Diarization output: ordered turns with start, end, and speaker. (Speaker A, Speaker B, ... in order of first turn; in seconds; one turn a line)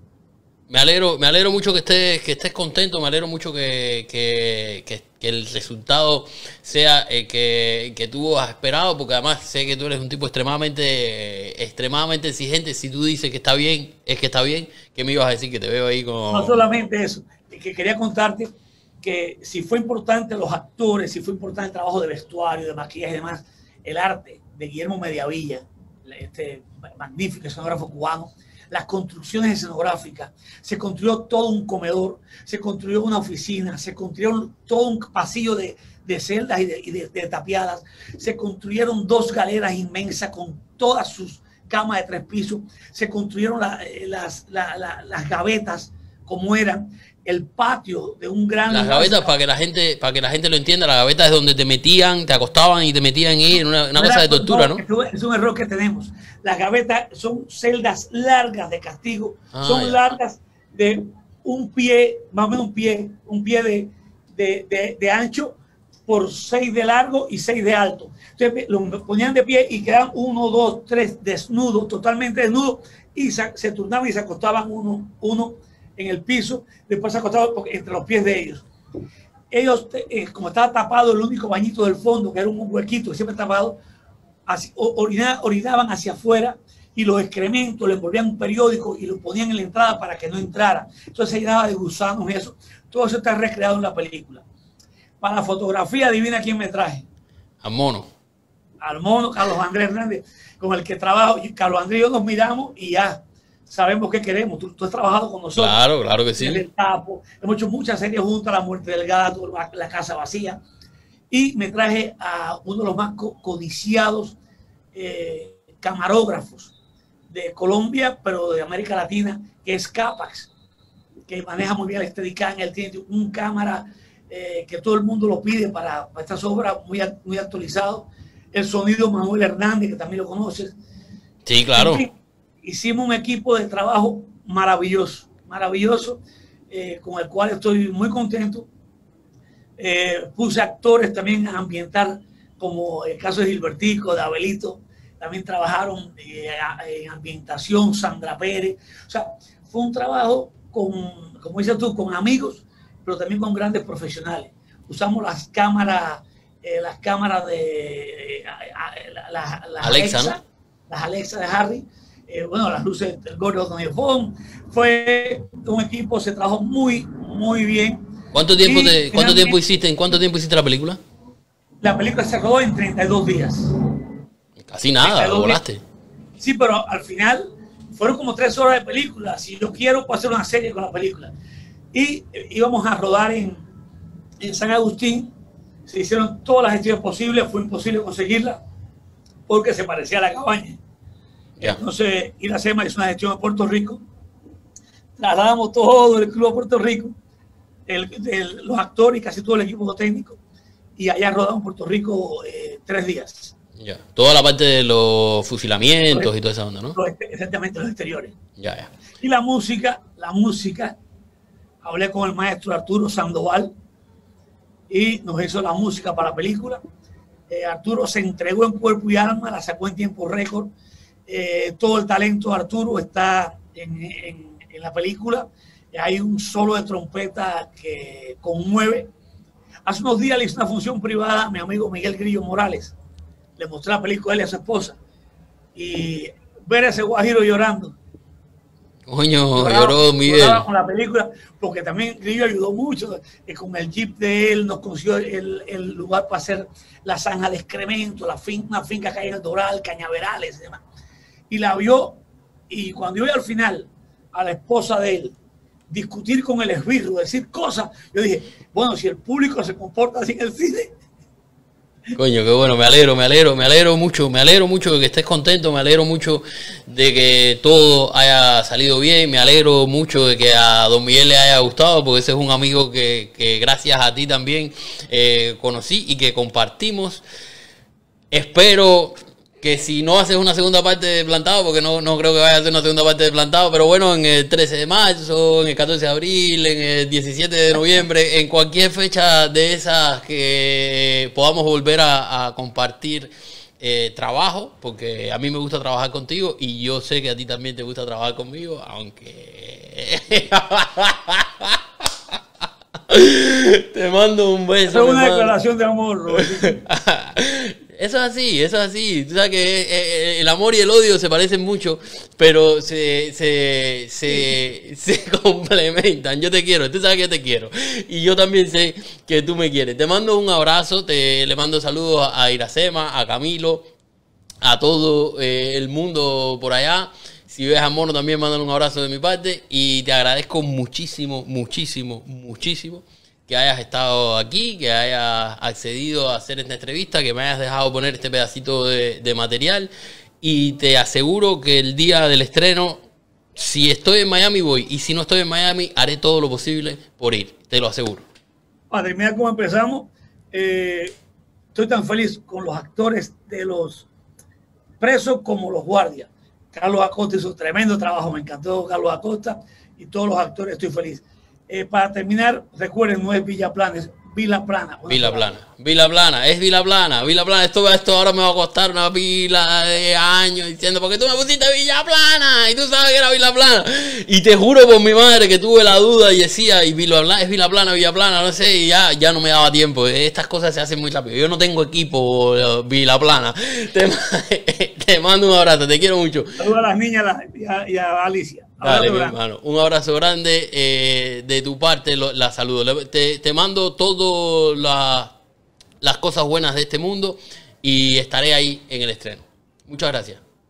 Speaker A: 0.7-16.6
Speaker B: 16.3-18.5
Speaker B: 19.0-49.3
Speaker A: 48.7-54.8
Speaker B: 53.9-65.5
Speaker A: 59.5-60.0
Speaker B: 66.1-78.6
Speaker B: 79.5-83.8
Speaker B: 84.5-94.4
Speaker B: 95.2-97.0
Speaker A: 97.6-98.1
Speaker B: 98.8-105.8
Speaker A: 105.5-106.6
Speaker B: 106.4-110.6
Speaker B: 111.3-114.4
Speaker B: 114.9-116.7
Speaker B: 117.3-120.5
Speaker B: 121.3-130.7
Speaker A: 131.4-132.1
Speaker B: 131.8-138.7
Speaker B: 139.8-168.1
Speaker A: 159.8-160.4
Speaker A: 168.3-171.0
Speaker B: 168.6-169.6
Speaker B: 171.8-173.7
Speaker A: 174.7-175.8
Speaker B: 175.0-175.6
Speaker B: 176.4-181.3
Speaker B: 181.9-183.6
Speaker B: 184.4-185.3
Speaker B: 185.8-188.6
Speaker B: 189.5-190.8
Speaker B: 191.6-194.0
Speaker B: 195.2-197.1
Speaker B: 197.9-200.4
Speaker B: 201.0-203.5
Speaker A: 203.8-207.0
Speaker B: 206.9-208.3
Speaker A: 208.6-208.9
Speaker B: 209.2-210.9
Speaker B: 211.8-213.7
Speaker B: 214.9-216.8
Speaker B: 217.5-220.7
Speaker B: 221.3-229.1
Speaker B: 229.8-232.9
Speaker B: 233.6-235.0
Speaker B: 235.7-237.9
Speaker A: 239.1-240.6
Speaker B: 239.5-250.8
Speaker B: 251.5-255.3
Speaker B: 255.9-260.9
Speaker A: 262.1-277.2
Speaker A: 278.3-301.8
Speaker A: 303.1-305.6
Speaker B: 304.9-306.8
Speaker A: 306.3-323.9
Speaker A: 324.6-339.9
Speaker A: 340.4-343.0
Speaker A: 343.5-348.2
Speaker B: 348.9-351.1
Speaker B: 351.7-354.1
Speaker B: 355.0-365.5
Speaker A: 365.1-386.6
Speaker B: 386.6-389.4
Speaker A: 388.8-395.3
Speaker A: 396.0-400.4